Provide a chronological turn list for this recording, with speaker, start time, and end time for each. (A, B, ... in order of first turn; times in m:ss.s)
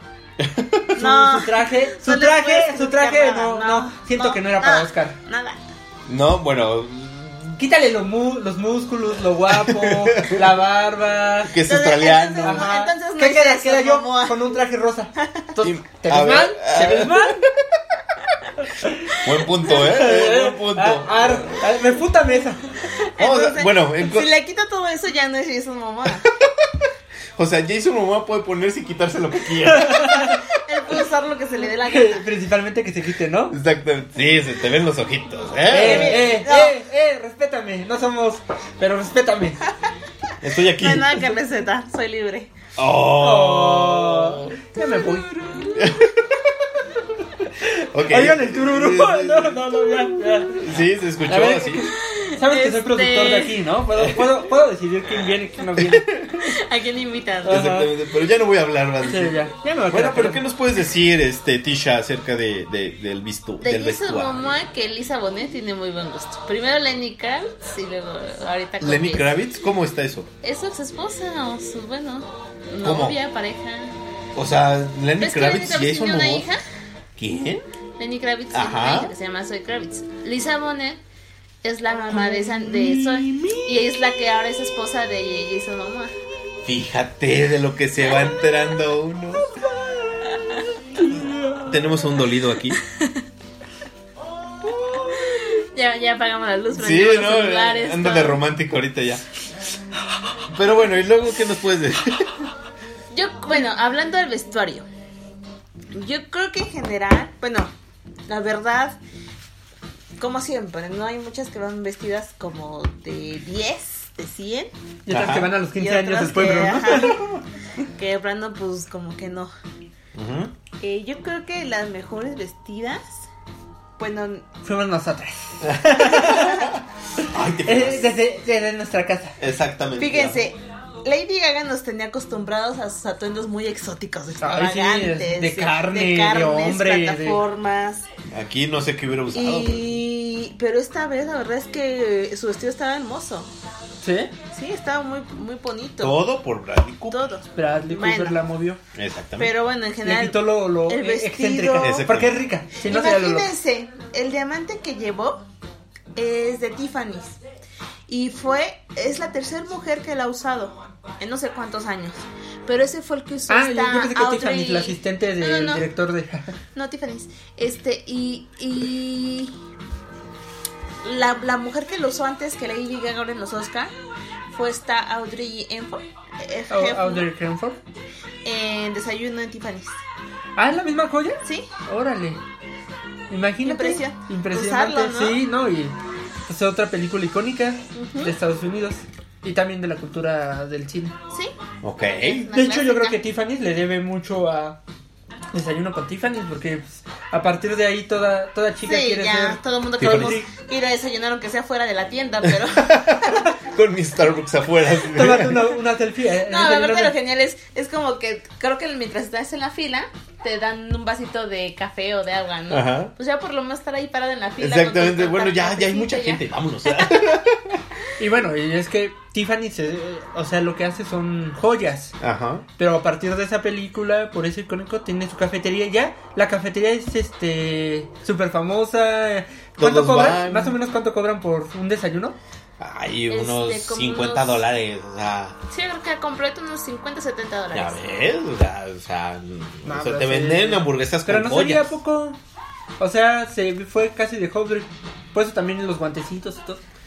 0:00.4-0:00.9 A
0:01.0-0:05.2 B
0:01.0-0:05.6 C
0:06.1-0:07.6 A
0:07.6-0:11.5 B
0:09.5-0:10.5 A
0:11.5-0:12.7 A
0:11.6-0:14.5 C
0:12.4-0:17.5 B
0:15.6-0:17.6 A
0:18.7-0:22.7 B
0:19.2-0:21.6 A
0:23.0-0:26.3 C
0:23.2-0:24.3 A
0:27.4-0:30.4 A
0:29.7-0:30.4 B
0:30.4-0:32.3 C
0:31.9-0:33.6 B
0:33.5-0:36.3 A
0:35.7-0:39.6 B
0:35.7-0:36.8 C
0:40.4-0:41.3 A
0:40.7-0:42.5 C
0:42.8-0:44.6 A
0:43.2-0:45.6 B
0:45.1-0:45.8 C
0:45.8-0:46.5 A
0:47.4-0:50.7 B
0:47.9-0:51.9 A
0:51.3-0:56.5 B
0:52.0-0:53.6 C
0:54.0-0:54.2 A
0:55.8-0:56.4 A
0:56.5-0:57.7 C
0:57.4-0:57.9 B
0:57.5-1:04.4 A
0:59.0-1:00.4 B
1:03.6-1:09.3 C
1:08.8-1:10.3 A
1:10.4-1:14.0 C
1:12.8-1:13.2 A
1:14.4-1:16.5 A
1:15.2-1:16.6 C
1:17.2-1:17.6 A
1:18.0-1:21.0 C
1:18.5-1:19.1 A
1:21.6-1:26.1 C
1:22.1-1:23.7 B
1:26.6-1:29.5 A
1:30.3-1:30.6 C
1:31.0-1:31.8 B
1:31.6-1:32.8 A
1:35.0-1:38.4 C
1:36.8-1:39.2 A
1:40.5-1:42.3 A
1:43.1-1:44.9 C
1:45.9-1:47.7 C
1:48.3-1:49.0 C
1:50.2-1:54.7 C
1:55.1-1:57.2 B
1:55.1-1:55.5 A
1:55.8-1:57.2 C
1:57.8-1:59.5 C
2:00.2-2:00.5 A
2:00.8-2:03.3 C
2:04.0-2:04.5 C
2:04.6-2:06.7 B
2:05.6-2:08.1 A
2:06.2-2:06.7 C
2:07.7-2:09.4 B
2:09.4-2:10.4 A
2:10.0-2:18.1 C
2:14.4-2:17.4 B
2:18.3-2:19.9 A
2:19.3-2:23.5 C
2:24.0-2:24.3 B
2:24.5-2:26.2 C
2:26.0-2:27.3 A
2:27.1-2:28.4 C
2:27.6-2:28.8 B
2:29.0-2:29.5 A
2:29.4-2:32.1 C
2:30.0-2:33.5 B
2:31.8-2:32.4 A
2:32.9-2:35.4 C
2:36.2-2:37.4 C
2:38.1-2:45.8 C
2:43.5-2:46.6 B
2:46.8-2:49.6 C
2:51.0-2:53.9 C
2:54.5-2:57.3 C
2:56.7-2:57.8 B
2:58.4-3:00.0 C
3:00.6-3:02.4 B
3:01.4-3:01.7 C
3:03.3-3:06.0 B
3:03.6-3:05.4 C
3:06.5-3:11.2 B
3:08.0-3:08.3 C
3:11.3-3:13.2 C
3:11.8-3:12.5 A
3:12.5-3:14.8 B
3:15.5-3:20.5 B
3:18.8-3:23.5 C
3:20.0-3:20.4 A
3:22.5-3:25.8 A
3:25.1-3:27.2 B
3:26.5-3:37.3 C
3:32.7-3:33.1 A
3:34.6-3:37.8 A
3:38.2-3:42.2 B
3:42.2-3:42.7 A
3:42.8-3:52.4 B
3:49.8-3:50.8 A
3:52.8-3:55.6 A
3:53.3-3:54.6 C
3:55.7-3:58.0 C
3:57.7-4:01.9 A
3:59.8-4:02.4 B
4:03.0-4:06.8 B